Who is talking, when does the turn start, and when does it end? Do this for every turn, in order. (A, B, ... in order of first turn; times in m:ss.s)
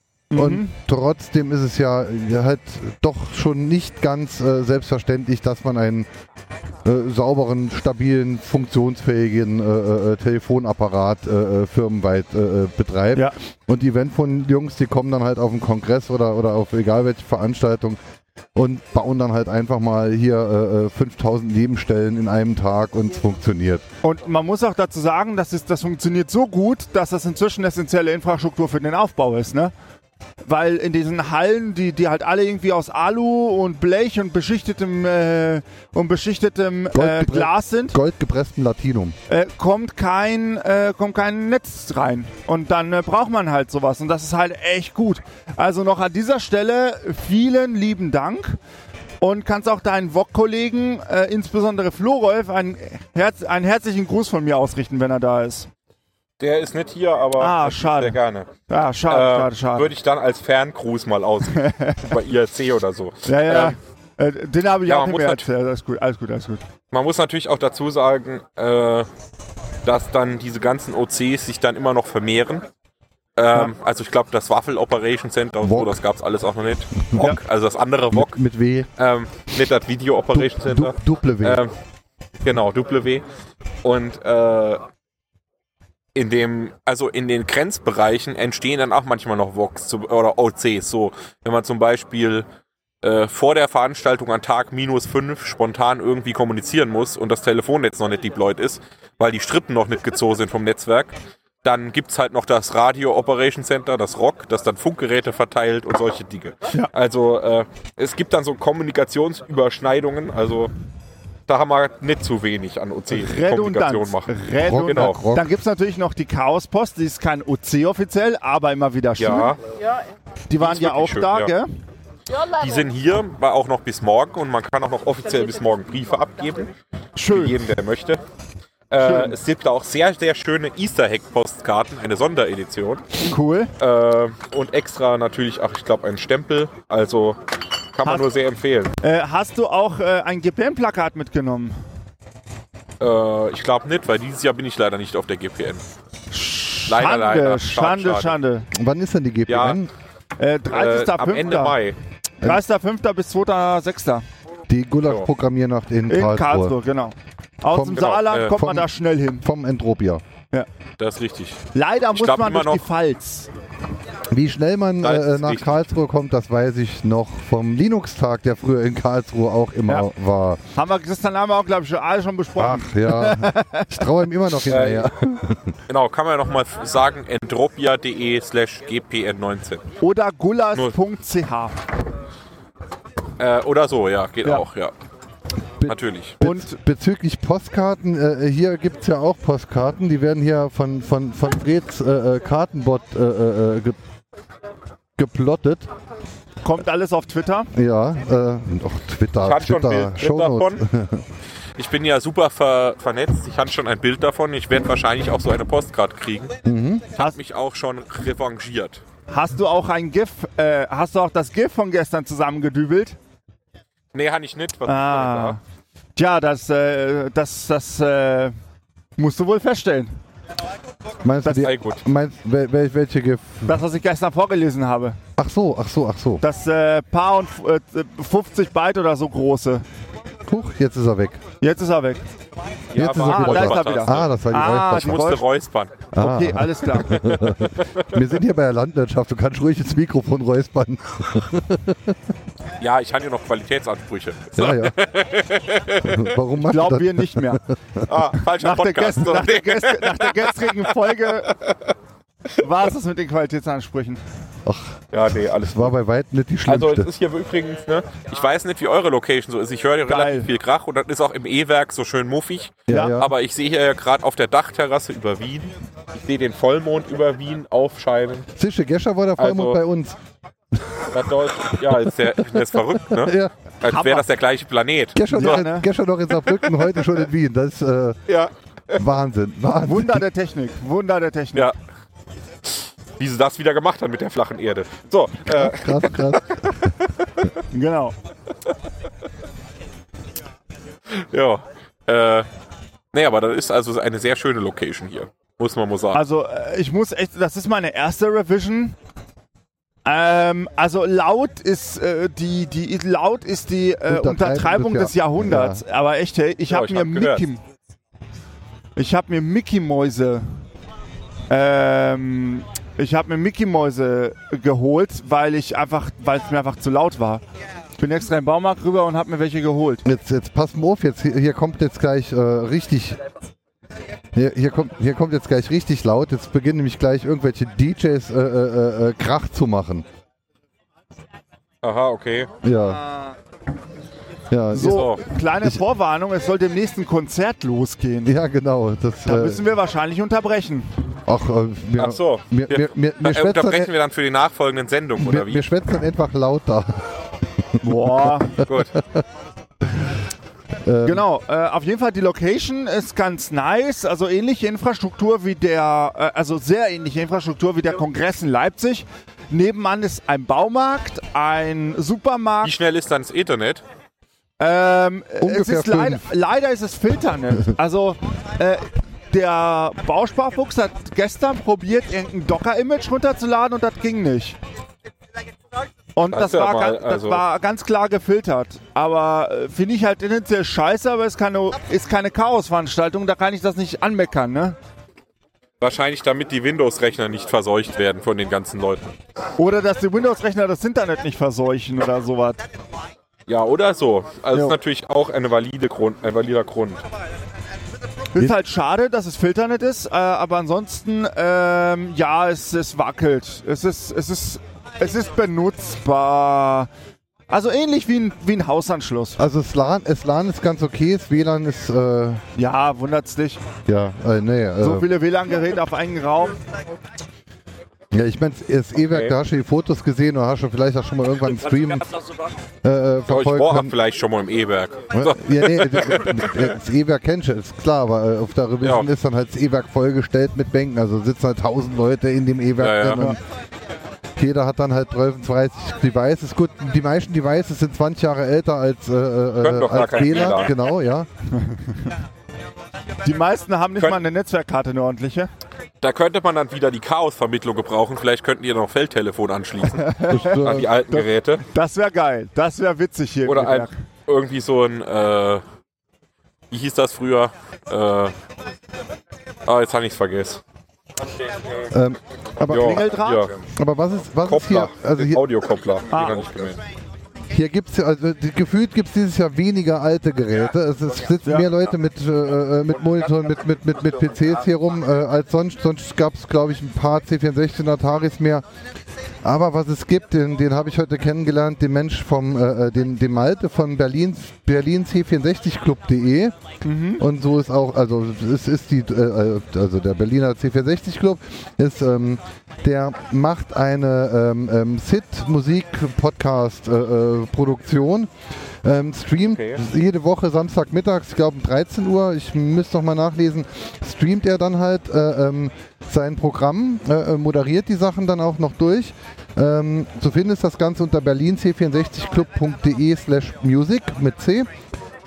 0:00.3-0:00.7 A
0:00.4-0:06.1 B
0:06.8-0:18.0 B
0:18.6-0:23.8 B
0:24.0-0:29.7 A
0:30.4-0:38.0 A
0:36.9-0:39.2 B
0:39.3-0:48.6 A
0:49.2-0:55.7 A
0:56.4-0:58.5 C
0:57.4-0:59.9 A
0:59.1-1:03.8 C
1:01.5-1:02.1 A
1:03.3-1:06.6 A
1:04.8-1:05.4 C
1:06.9-1:09.1 C
1:09.8-1:12.7 C
1:13.4-1:18.4 C
1:15.6-1:16.0 B
1:18.1-1:18.9 B
1:19.0-1:21.7 C
1:20.3-1:21.6 B
1:22.4-1:23.2 C
1:23.8-1:24.8 C
1:26.2-1:32.5 C
1:33.0-1:50.7 C
1:51.5-1:55.2 C
1:53.1-1:59.6 A
1:54.6-1:55.5 B
1:59.2-1:59.6 C
2:00.5-2:01.7 A
2:00.6-2:01.5 C
2:02.4-2:06.7 C
2:07.2-2:07.6 A
2:07.3-2:08.2 C
2:08.9-2:13.1 C
2:09.0-2:09.4 A
2:13.2-2:13.7 A
2:13.8-2:17.4 C
2:17.9-2:19.0 C
2:19.0-2:21.8 A
2:23.0-2:25.8 C
2:26.3-2:28.7 A
2:26.9-2:28.4 C
2:28.7-2:29.9 B
2:29.5-2:29.8 C
2:30.4-2:31.8 A
2:30.7-2:32.0 C
2:32.4-2:34.2 A
2:34.7-2:36.8 B
2:36.1-2:39.4 A
2:37.7-2:38.9 B
2:38.0-2:38.6 C
2:39.4-2:40.2 B
2:41.0-2:41.6 C
2:41.7-2:43.5 A
2:42.1-2:42.8 C
2:44.3-2:50.6 B
2:45.0-2:45.8 C
2:50.8-2:54.1 A
2:52.6-2:55.8 B
2:54.7-2:55.1 C
2:55.9-2:59.9 C
3:00.0-3:01.8 A
3:03.4-3:05.0 C
3:05.8-3:14.0 B
3:05.8-3:06.4 C
3:06.4-3:06.8 A
3:15.2-3:15.9 B
3:16.6-3:17.7 A
3:17.7-3:21.2 B
3:19.4-3:20.8 C
3:21.8-3:26.5 C
3:26.6-3:27.0 B
3:27.2-3:29.0 C
3:29.3-3:33.2 A
3:34.1-3:35.6 C
3:34.9-3:35.6 A
3:36.2-3:38.6 A
3:39.2-3:40.1 A
3:41.2-3:43.8 B
3:41.6-3:42.0 C
3:43.7-3:45.2 A
3:45.4-3:46.4 B
3:46.4-3:49.8 A
3:50.5-3:51.4 B
3:51.6-3:52.2 A
3:52.9-3:56.0 C
3:53.0-3:55.3 B
3:53.0-3:55.4 A
3:56.1-4:02.2 B
3:56.2-3:57.2 A
3:57.1-3:58.2 C
4:02.8-4:06.4 C
4:04.6-4:05.0 B
4:06.0-4:08.1 B
4:06.6-4:07.6 A
4:08.1-4:10.9 C
4:08.5-4:11.6 A
4:11.5-4:11.8 C
4:12.6-4:14.2 A
4:14.6-4:15.0 B
4:15.1-4:15.9 C
4:15.6-4:17.1 B
4:16.7-4:28.5 C
4:20.1-4:20.5 A
4:22.9-4:23.3 B
4:22.9-4:23.2 A
4:28.6-4:30.2 B
4:29.4-4:29.8 C
4:31.1-4:35.6 C
4:32.5-4:33.5 B
4:33.9-4:34.2 A
4:35.2-4:38.2 B
4:35.3-4:35.9 A
4:36.4-4:37.0 C
4:38.3-4:39.0 C
4:39.0-4:40.2 B
4:39.8-4:41.7 A
4:42.7-4:46.7 C
4:45.5-4:46.9 B
4:47.7-4:48.2 A
4:51.1-4:52.5 C
4:53.1-4:56.2 C
4:56.1-4:59.0 A
5:00.0-5:07.6 A
5:04.1-5:05.8 B
5:06.7-5:07.5 C
5:09.0-5:10.5 A
5:11.5-5:17.4 A
5:18.0-5:20.0 A
5:20.0-5:23.2 B
5:24.3-5:30.1 B
5:31.8-5:32.5 C
5:32.6-5:33.0 B
5:34.5-5:35.1 B
5:34.7-5:38.4 A
5:34.8-5:35.2 C
5:38.3-5:39.6 B
5:39.3-5:40.9 A
5:41.3-5:43.9 B
5:42.0-5:45.7 C
5:45.2-5:47.1 B
5:47.7-5:49.2 B
5:47.8-5:48.6 A
5:48.6-5:48.9 C
5:50.8-5:51.2 B
5:51.0-6:02.8 A
6:02.6-6:03.8 C
6:04.6-6:14.6 A
6:05.4-6:06.2 B
6:16.2-6:24.8 A
6:16.3-6:17.4 C
6:25.8-6:29.1 C
6:29.6-6:32.6 A
6:33.5-6:37.0 C
6:38.3-6:46.9 A
6:47.5-6:49.4 A
6:49.4-6:52.4 B
6:52.6-6:53.6 A
6:53.9-6:55.1 B
6:54.8-6:56.6 A
6:58.1-7:02.1 B
6:59.1-6:59.3 C
7:02.8-7:04.0 B
7:03.3-7:06.7 C
7:05.1-7:13.4 B
7:12.8-7:13.3 C
7:14.4-7:21.3 B
7:19.6-7:20.7 C
7:21.5-7:22.1 A
7:23.2-7:25.5 A
7:26.0-7:31.6 C
7:29.9-7:33.9 A
7:30.3-7:30.9 B
7:33.5-7:35.6 C
7:36.7-7:38.3 C
7:39.7-7:40.6 C
7:41.9-7:43.0 B
7:42.7-7:43.5 C
7:42.7-7:43.5 A
7:43.8-7:45.4 B
7:44.4-7:46.8 C
7:46.1-7:46.4 A
7:47.5-7:58.6 B
7:51.4-7:51.7 A
7:59.4-8:06.6 B
8:06.8-8:07.2 A
8:07.2-8:18.3 B
8:18.8-8:34.7 B
8:19.5-8:19.8 C